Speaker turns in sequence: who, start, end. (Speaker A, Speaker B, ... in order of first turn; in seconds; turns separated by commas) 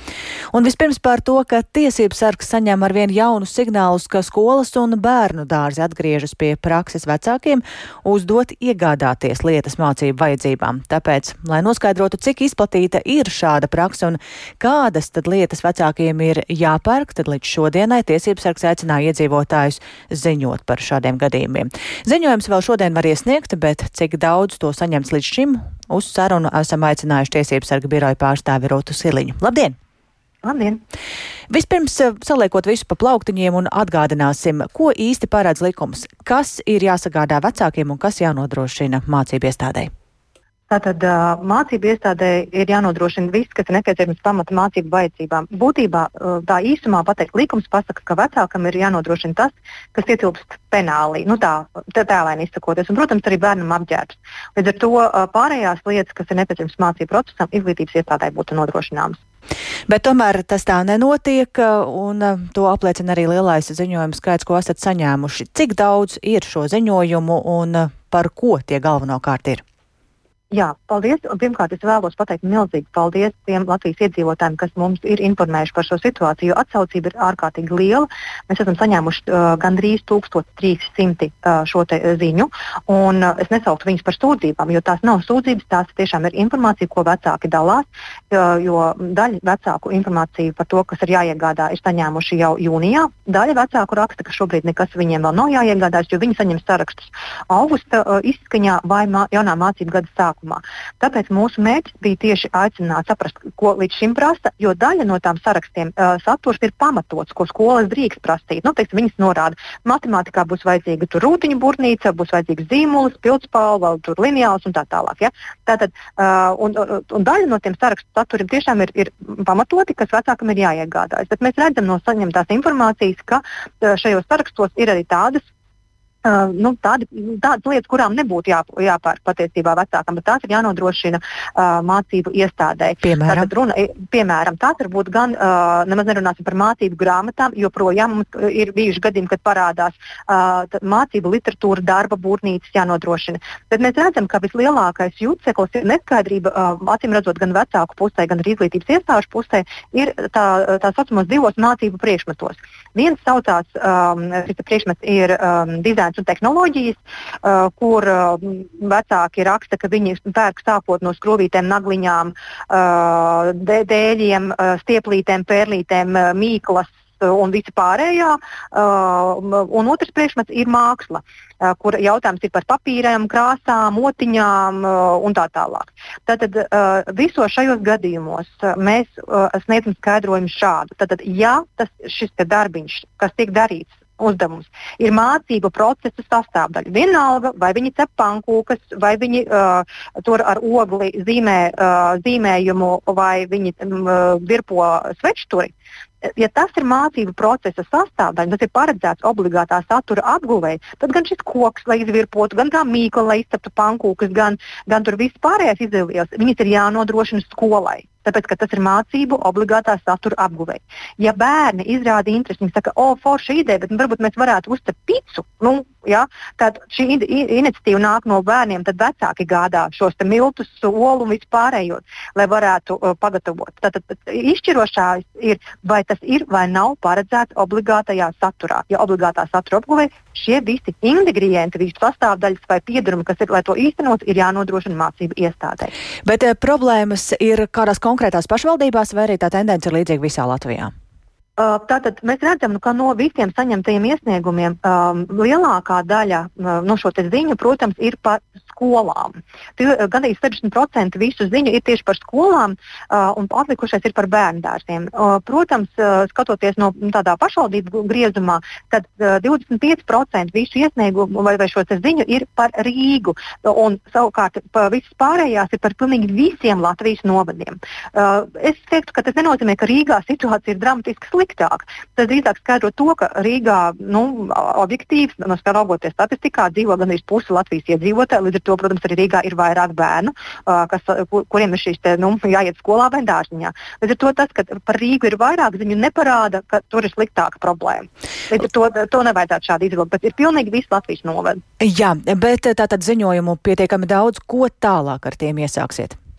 Speaker A: 0.5-29.8, Speaker B: 30.4-30.8, Speaker A: 31.5-39.9, Speaker B: 40.7-59.2, Speaker A: 59.9-69.6, Speaker B: 70.5-125.4, Speaker B: 126.2-195.7, Speaker A: 133.0-133.5, Speaker B: 196.2-235.9, Speaker A: 236.2-240.9, Speaker B: 241.6-291.6, Speaker A: 291.8-296.2